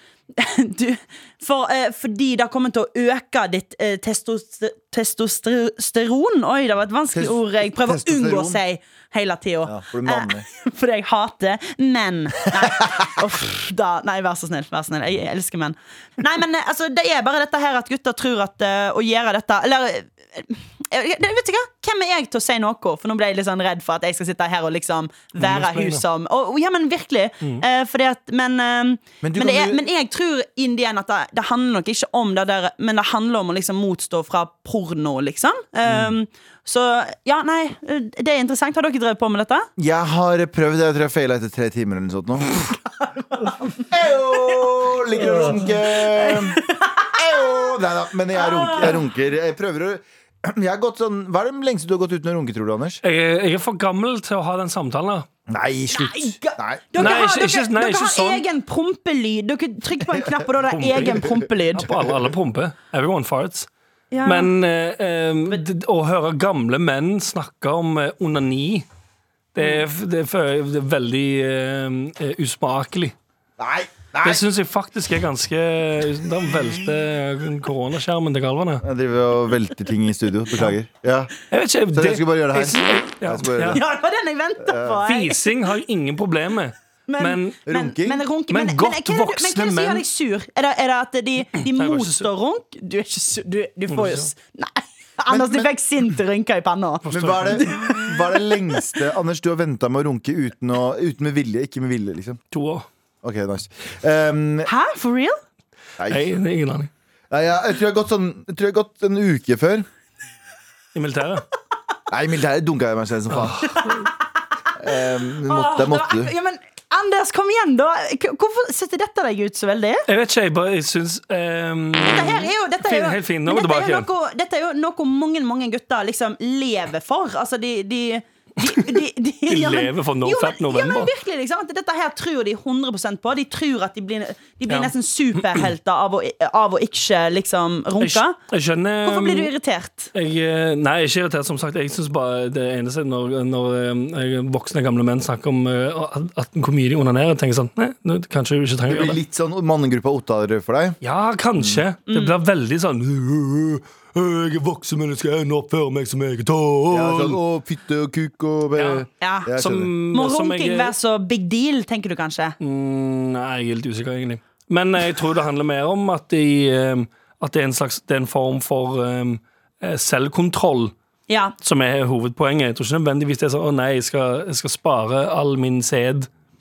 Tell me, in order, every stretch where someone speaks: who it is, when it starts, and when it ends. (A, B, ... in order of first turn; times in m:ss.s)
0:00.4-0:39.7 A
0:07.1-0:08.6 B
0:09.6-0:10.4 B
0:25.4-0:26.0 C
0:29.2-0:29.8 B
0:35.8-0:36.1 B
0:39.8-0:42.7 B
0:43.3-0:43.8 A
0:43.9-0:46.6 B
0:46.1-0:47.1 A
0:47.1-0:53.0 B
0:48.3-0:49.0 A
0:53.0-0:55.2 C
0:55.5-0:57.2 B
0:55.9-1:02.0 A
0:57.0-0:58.4 C
1:00.1-1:00.4 B
1:00.7-1:03.7 C
1:04.1-1:04.5 A
1:04.2-1:08.8 C
1:09.5-1:13.1 C
1:13.6-1:14.4 B
1:14.2-1:18.8 C
1:18.8-1:21.3 B
1:21.5-1:23.8 C
1:21.9-1:23.8 B
1:23.7-1:25.5 A
1:24.6-1:25.0 B
1:25.0-1:27.6 C
1:27.1-1:38.8 A
1:27.6-1:28.2 B
1:28.5-1:30.0 C
1:31.6-1:32.3 C
1:33.9-1:34.3 C
1:35.3-1:35.7 B
1:37.0-1:37.7 C
1:37.1-1:42.4 B
1:42.5-1:42.8 C
1:43.2-1:44.7 B
1:44.6-1:45.4 A
1:46.0-1:46.3 B
1:46.1-1:46.9 C
1:47.3-1:49.8 B
1:50.9-1:51.4 C
1:52.1-1:53.7 B
1:53.3-1:54.1 C
1:53.8-1:54.1 A
1:54.8-1:56.3 B
1:55.4-2:00.0 A
2:00.1-2:04.1 C
2:02.0-2:18.4 A
2:08.7-2:11.1 C
2:18.0-2:19.5 C
2:19.0-2:20.1 A
2:20.1-2:29.2 C
2:28.9-2:31.0 B
2:31.0-2:37.4 C
2:32.1-2:32.4 A
2:36.9-2:39.9 B
2:38.8-2:40.9 C
2:39.2-2:39.5 A
2:40.1-2:42.5 A
2:42.6-2:50.9 C
2:51.3-2:51.5 A
2:51.6-2:56.3 C